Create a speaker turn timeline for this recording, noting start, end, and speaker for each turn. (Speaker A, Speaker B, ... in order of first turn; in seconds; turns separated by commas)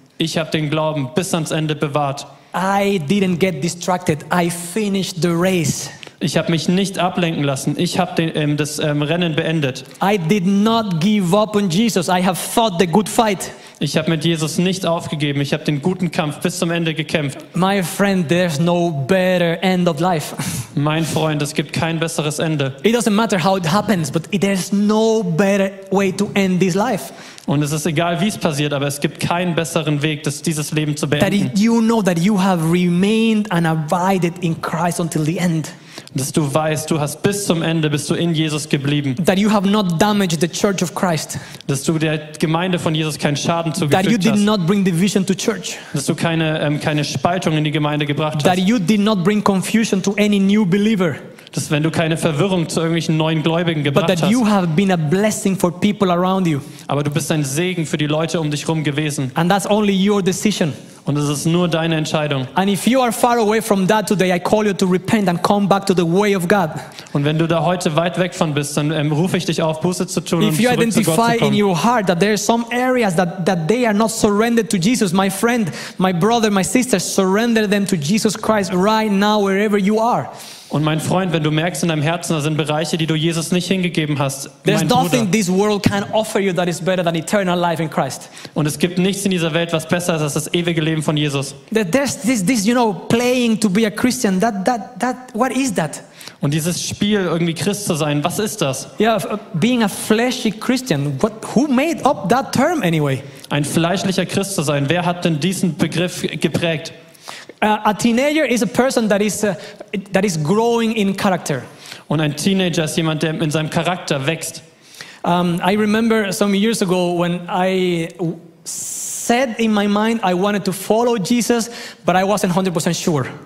Speaker A: 0.2-2.3, Speaker B: 2.5-5.9, Speaker A: 6.2-9.8, Speaker B: 10.0-13.6, Speaker A: 13.8-17.4, Speaker B: 17.5-20.7, Speaker A: 20.7-22.8, Speaker B: 22.8-27.1, Speaker A: 27.5-31.5, Speaker B: 31.2-35.7, Speaker A: 36.1-39.2, Speaker B: 39.2-41.4, Speaker A: 41.7-44.4, Speaker B: 43.8-45.9, Speaker A: 45.9-48.6, Speaker B: 48.4-51.2, Speaker A: 51.5-54.4, Speaker B: 53.9-56.6, Speaker A: 56.9-59.3, Speaker B: 59.3-60.8, Speaker A: 61.0-62.5, Speaker B: 62.5-66.8, Speaker A: 67.1-71.6, Speaker B: 70.4-80.3, Speaker A: 80.7-85.3, Speaker B: 84.6-88.3, Speaker A: 88.5-91.6, Speaker B: 91.7-96.0, Speaker A: 96.4-98.9, Speaker B: 99.0-103.2, Speaker A: 103.5-106.9, Speaker B: 107.6-111.7, Speaker A: 112.1-114.6, Speaker B: 115.2-123.3